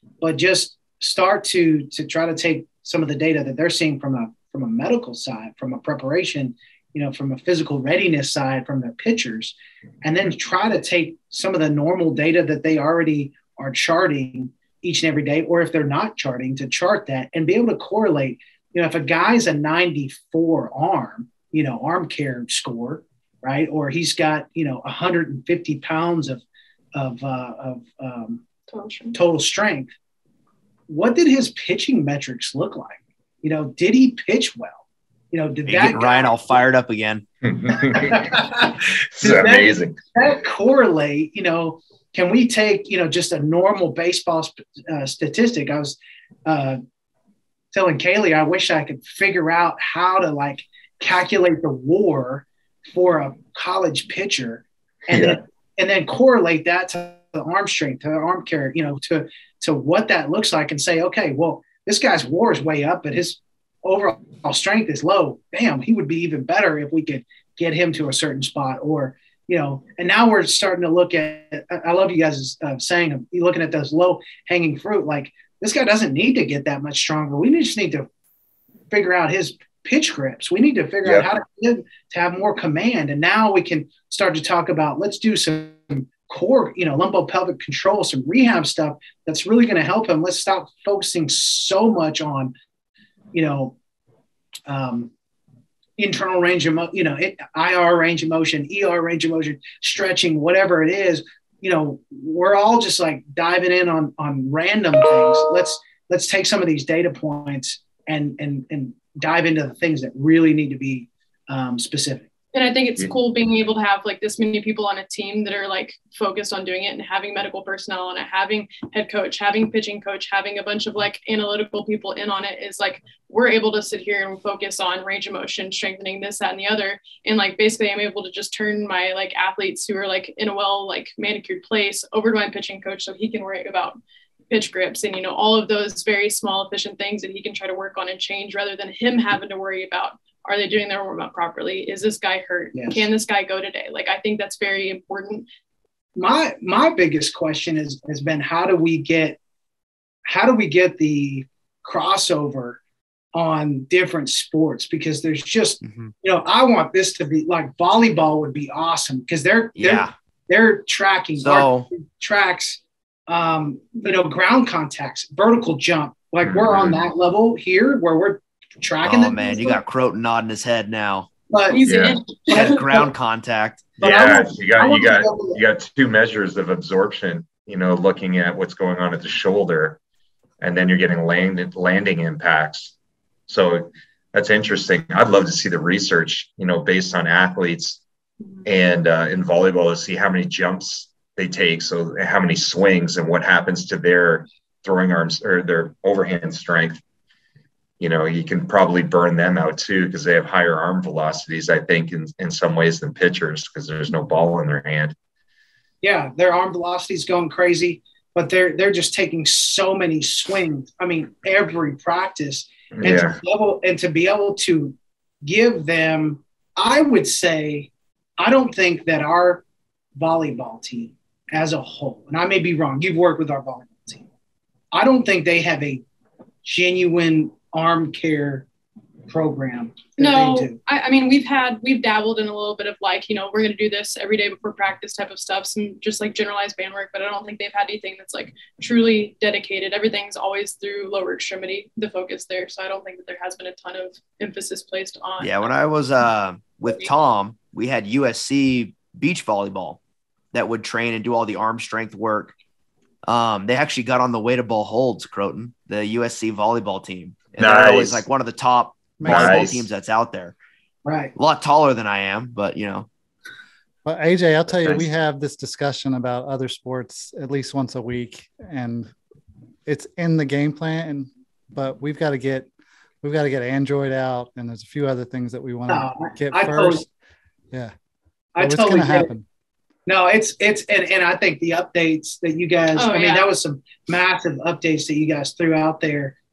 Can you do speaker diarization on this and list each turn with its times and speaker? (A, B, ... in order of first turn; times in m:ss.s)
0:00.2-0:26.4 A
0:27.0-0:28.4 A
0:28.7-0:29.2 B
0:29.1-0:29.9 A
0:30.9-0:36.6 A
0:35.7-0:37.2 C
0:37.4-0:40.0 D
0:37.8-0:46.8 A
0:47.7-1:18.1 A
0:55.1-0:55.4 D
1:18.9-1:32.5 A
1:33.3-1:33.8 A
1:34.7-1:35.1 A
1:36.0-1:52.3 A
1:52.5-2:14.0 B
2:14.5-2:25.5 B
2:22.8-2:23.0 A
2:26.2-2:29.4 A
2:30.3-2:32.8 A
2:33.4-2:49.8 A
2:35.8-2:36.1 C
2:39.8-2:40.1 C
2:41.4-2:41.9 C
2:46.4-2:47.0 D
2:49.0-2:51.3 C
2:51.5-2:51.8 A
2:51.7-2:52.8 B
2:51.9-2:52.2 D
2:52.5-2:53.1 A
2:52.5-2:53.9 C
2:54.0-2:55.6 A
2:54.0-3:00.0 D
3:00.6-3:02.9 D
3:03.5-3:08.0 D
3:08.6-3:17.0 D
3:18.0-3:25.2 D
3:26.0-3:39.6 A
3:33.0-3:33.4 D
3:40.2-3:44.2 A
3:44.9-3:46.0 A
3:46.6-3:48.7 A
3:49.3-3:50.8 A
3:50.2-4:05.7 B
4:05.4-4:10.0 C
4:10.5-4:12.5 C
4:13.2-4:20.6 C
4:17.6-4:18.2 D
4:19.2-4:19.6 E
4:19.2-4:19.9 D
4:21.0-4:21.3 A
4:21.4-4:23.1 C
4:24.0-4:29.1 E
4:29.9-4:32.7 E
4:33.2-4:37.1 E
4:35.9-4:37.0 A
4:38.6-4:39.3 A
4:38.6-4:39.4 E
4:40.1-4:46.4 A
4:43.0-4:43.5 B